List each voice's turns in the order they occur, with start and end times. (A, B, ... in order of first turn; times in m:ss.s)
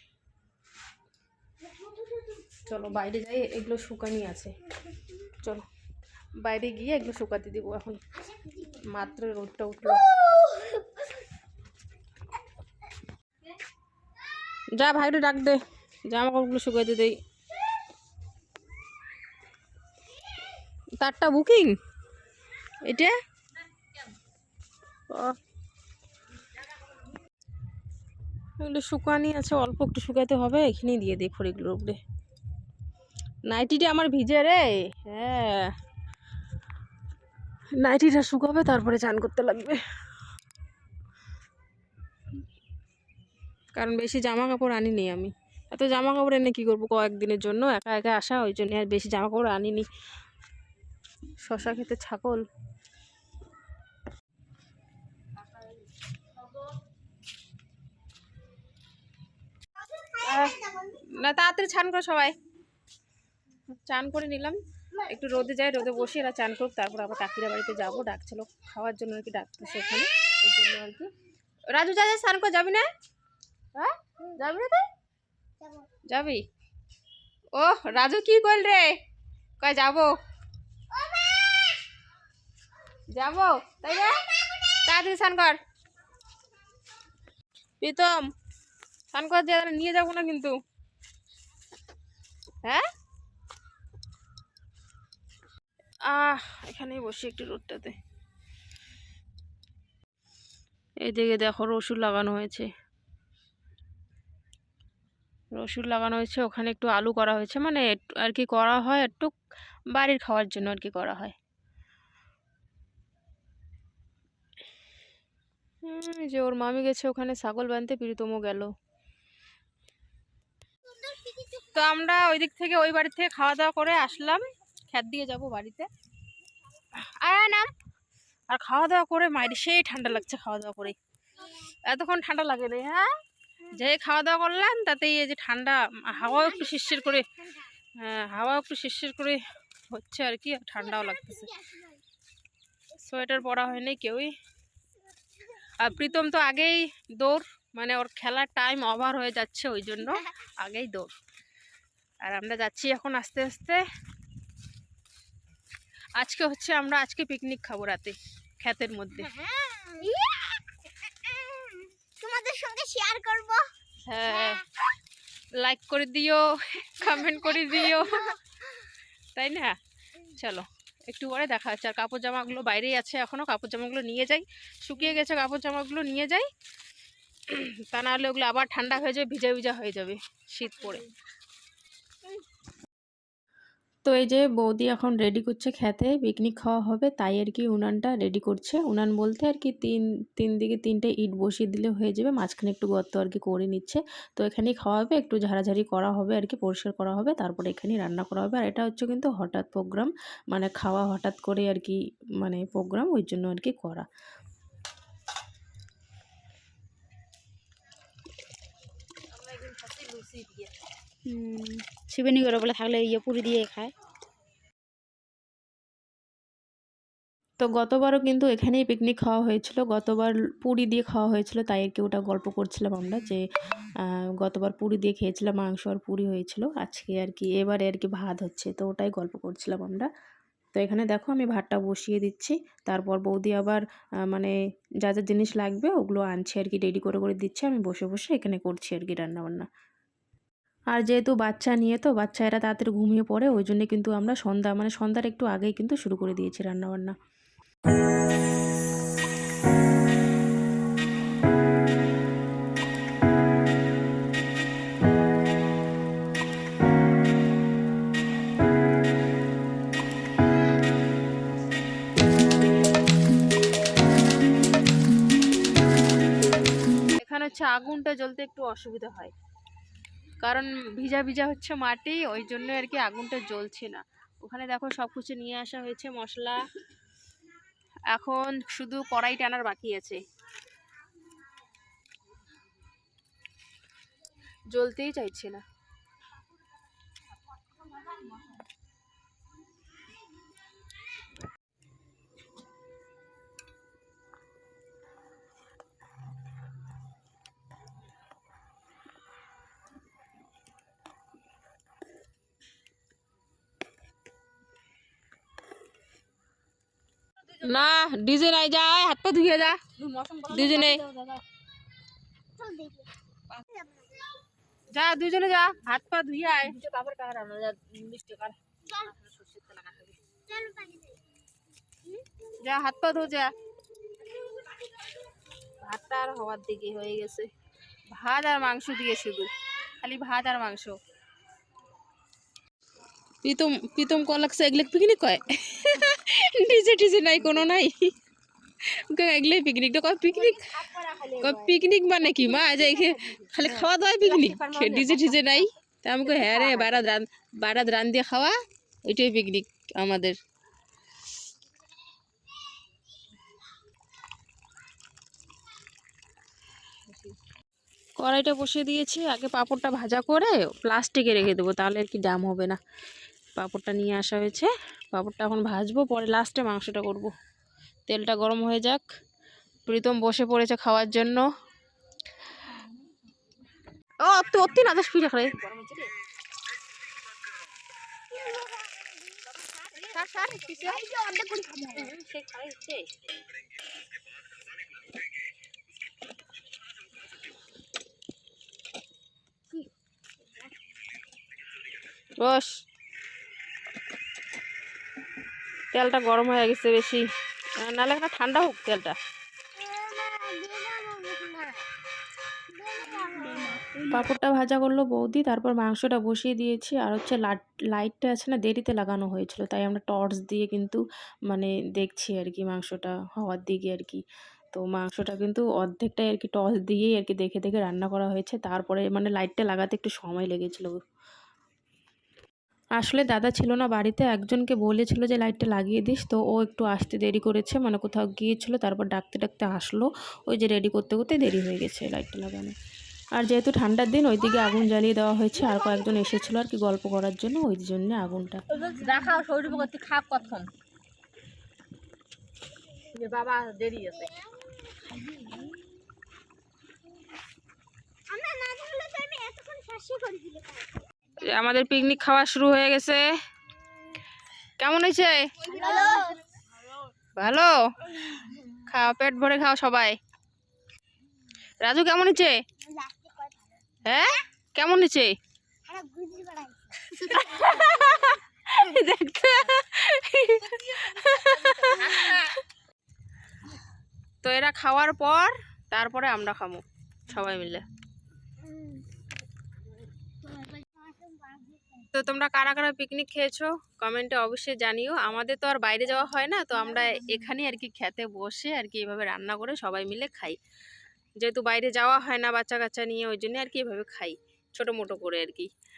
0:01.7-0:02.2 A
0:02.6-0:04.5 B
0:06.4-0:08.0 B
0:08.6-0:10.2 B
0:10.2-0:10.9 A
0:14.7-0:17.2 B
0:21.0-0:21.8 B
0:22.8-0:23.2 B
0:25.1-0:25.4 B
0:28.6-0:32.0 B
0:33.5-0:35.7 B
0:37.8-0:39.8 B
0:43.8-0:49.9 B
0:51.4-0:52.4 B
1:00.1-1:02.3 B
1:03.9-1:11.1 B
1:11.7-1:12.9 B
1:13.8-1:14.9 B
1:16.1-1:16.4 B
1:17.5-1:19.0 B
1:19.6-1:20.1 B
1:23.1-1:25.6 B
1:27.8-1:28.2 B
1:29.1-1:30.6 B
1:36.1-1:38.0 B
1:41.0-1:42.7 B
1:45.5-1:49.3 B
1:49.9-1:51.3 B
1:55.8-1:58.7 B
2:00.9-2:01.5 A
2:01.5-2:05.9 B
2:07.0-2:07.7 B
2:08.5-2:11.0 B
2:11.6-2:13.1 B
2:13.7-2:17.4 B
2:18.0-2:19.4 B
2:19.9-2:21.7 B
2:21.6-2:22.0 A
2:22.9-2:24.3 B
2:25.8-2:31.1 B
2:32.2-2:33.8 B
2:36.2-2:39.3 B
2:39.3-2:43.7 A
2:44.0-2:44.6 B
2:45.6-2:48.4 B
2:49.3-2:56.5 B
2:57.5-3:01.1 B
3:04.0-3:24.1 B
3:29.3-3:30.7 C
3:31.3-3:33.8 B
3:31.9-3:33.9 C
3:37.6-3:43.4 B
3:44.0-3:50.1 B
3:50.7-3:59.7 B
4:00.9-4:07.2 B
4:27.2-4:29.3 B
4:30.4-4:36.6 B
4:38.1-4:40.2 B
4:44.7-4:45.6 B
5:07.5-5:09.8 B
5:09.9-5:11.4 C
5:10.5-5:11.0 B
5:12.6-5:13.1 A
5:13.8-5:14.2 A
5:14.9-5:16.8 B
5:16.7-5:18.6 C
5:19.2-5:19.9 B
5:20.4-5:21.2 A
5:22.6-5:23.5 B
5:25.8-5:27.5 B
5:28.1-5:30.9 B
5:33.4-5:38.1 B
5:38.8-5:40.8 B
5:40.3-5:41.8 C
5:41.4-5:50.4 B
5:42.4-5:45.6 C
5:46.2-5:47.0 C
5:58.2-6:02.8 B
6:03.6-6:07.3 B
6:08.1-6:09.0 B
6:09.8-6:11.4 B
6:14.2-6:16.1 B
6:18.3-6:22.1 A
6:20.0-6:21.1 B
6:21.9-6:23.0 B
6:32.4-6:32.8 B
6:35.9-6:37.2 B
6:37.8-6:39.2 B
6:39.8-6:41.9 A
6:42.8-6:44.0 A
6:44.0-7:01.0 B
7:03.0-7:12.7 B
7:13.3-7:18.6 B
7:18.7-7:20.7 C
7:23.1-7:24.3 C
7:24.2-7:25.1 A
7:25.2-7:25.6 C
7:28.3-7:31.0 A
7:31.4-7:33.2 B
7:34.8-7:36.0 B
7:35.7-7:36.4 A
7:37.4-7:40.2 B
7:41.8-7:42.6 B
7:42.9-7:43.5 A
7:44.0-7:45.3 B
7:45.9-7:48.3 A
7:47.0-7:52.6 B
7:50.9-7:52.5 C
7:54.4-7:57.8 B
7:58.7-7:59.0 A
8:00.5-8:01.8 A
8:02.1-8:10.6 B
8:11.4-8:15.7 B